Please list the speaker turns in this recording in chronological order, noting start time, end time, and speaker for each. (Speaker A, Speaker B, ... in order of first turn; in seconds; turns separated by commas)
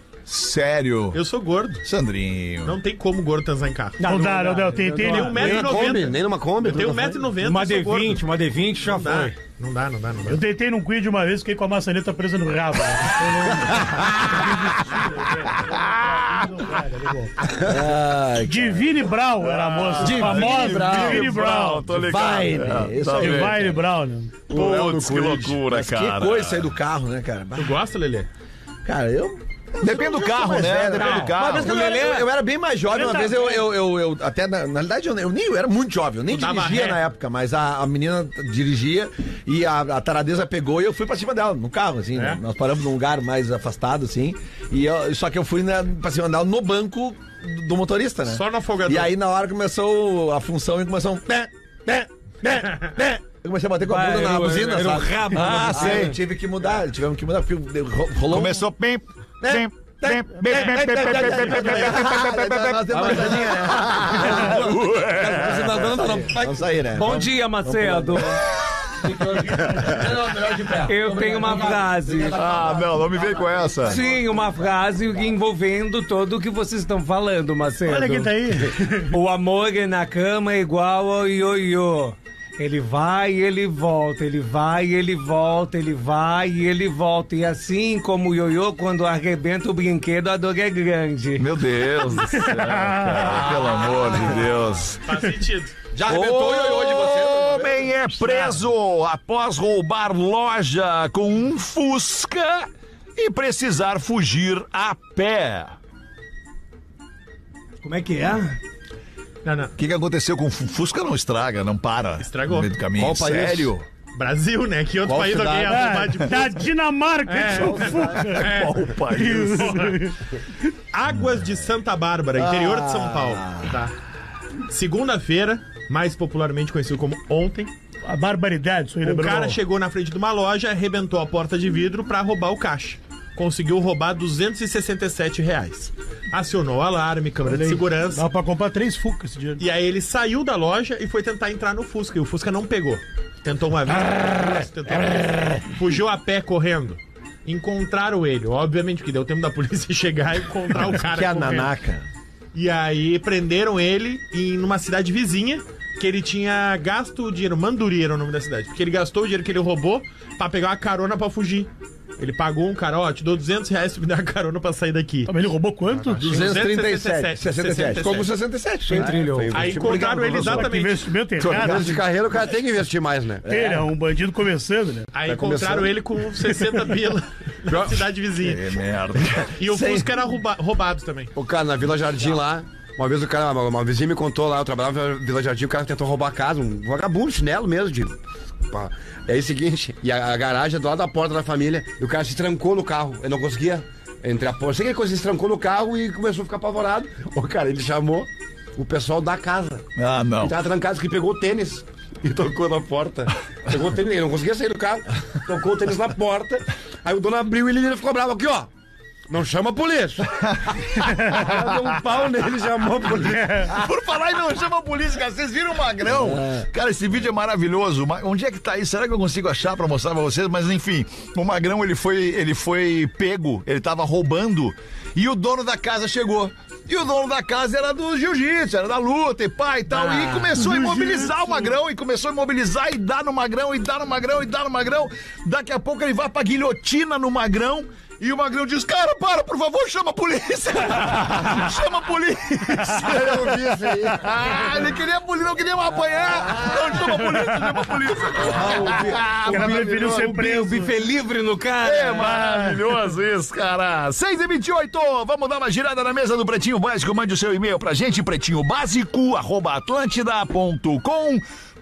Speaker A: 0.3-1.2, Speaker B: 1.1-1.8, Speaker A: 1.8-2.8, Speaker B: 2.6-4.0, Speaker C: 4.0-5.9, Speaker D: 4.0-5.7, Speaker B: 5.0-8.2, Speaker E: 5.3-7.2, Speaker C: 7.4-9.3, Speaker B: 8.8-10.4, Speaker D: 10.3-17.6, Speaker A: 15.6-16.5, Speaker F: 17.6-18.9, Speaker D: 18.4-22.1, Speaker A: 19.4-23.7, Speaker F: 20.0-21.4, Speaker F: 21.9-23.8, Speaker D: 23.2-24.3, Speaker A: 24.5-26.7, Speaker F: 24.5-27.8, Speaker E: 24.5-25.6, Speaker B: 27.6-28.3, Speaker F: 28.9-58.7, Speaker A: 29.8-31.8, Speaker B: 31.0-31.3, Speaker C: 31.3-32.3, Speaker D: 32.9-33.7, Speaker B: 36.3-37.0, Speaker B: 42.1-42.4, Speaker B: 48.3-49.1, Speaker C: 53.8-56.1, Speaker A: 55.3-56.1, Speaker A: 58.3-66.0, Speaker F: 59.4-68.4, Speaker E: 62.9-66.6, Speaker C: 66.9-68.4, Speaker F: 69.0-74.5, Speaker C: 70.8-72.5, Speaker A: 72.3-74.0, Speaker C: 73.8-78.4, Speaker D: 77.9-79.2, Speaker C: 79.0-91.6, Speaker A: 91.4-95.0, Speaker D: 92.2-93.5, Speaker B: 94.2-95.8, Speaker F: 95.9-98.5, Speaker A: 96.0-105.8, Speaker C: 107.8-108.6, Speaker B: 109.4-109.8, Speaker A: 109.8-113.8, Speaker B: 112.2-112.7, Speaker E: 113.0-113.7, Speaker B: 114.2-116.7, Speaker E: 115.0-116.0, Speaker D: 115.7-120.3, Speaker B: 117.3-119.0, Speaker F: 117.6-118.2, Speaker A: 117.9-120.0, Speaker B: 120.9-124.0, Speaker F: 122.3-123.8, Speaker B: 124.7-127.7, Speaker D: 128.1-129.6, Speaker B: 129.0-138.2, Speaker D: 137.4-139.6, Speaker B: 139.6-151.7, Speaker F: 150.9-152.1, Speaker B: 152.5-165.4, Speaker D: 165.3-166.4, Speaker B: 166.1-168.3, Speaker F: 166.2-169.2, Speaker C: 168.9-169.8, Speaker E: 168.9-170.4, Speaker B: 169.5-171.1, Speaker A: 169.8-170.7, Speaker D: 170.4-171.9, Speaker A: 171.4-172.0, Speaker E: 171.4-173.4, Speaker F: 173.5-173.9, Speaker D: 173.5-175.1, Speaker B: 175.1-178.7, Speaker E: 175.3-176.0, Speaker A: 178.4-179.6, Speaker B: 179.6-181.3, Speaker F: 179.6-180.1, Speaker E: 181.3-188.2, Speaker E: 188.7-199.9, Speaker A: 200.0-200.6, Speaker E: 200.4-208.7, Speaker E: 209.3-210.4, Speaker A: 210.4-211.1, Speaker E: 211.2-213.8, Speaker D: 213.3-213.7, Speaker A: 213.7-250.1, Speaker F: 216.1-216.7, Speaker D: 230.1-231.7, Speaker E: 243.0-244.6, Speaker D: 247.0-247.8, Speaker F: 248.6-249.2, Speaker E: 248.7-249.1, Speaker C: 249.4-252.4, Speaker D: 249.5-250.9, Speaker A: 251.8-261.4, Speaker D: 252.1-253.1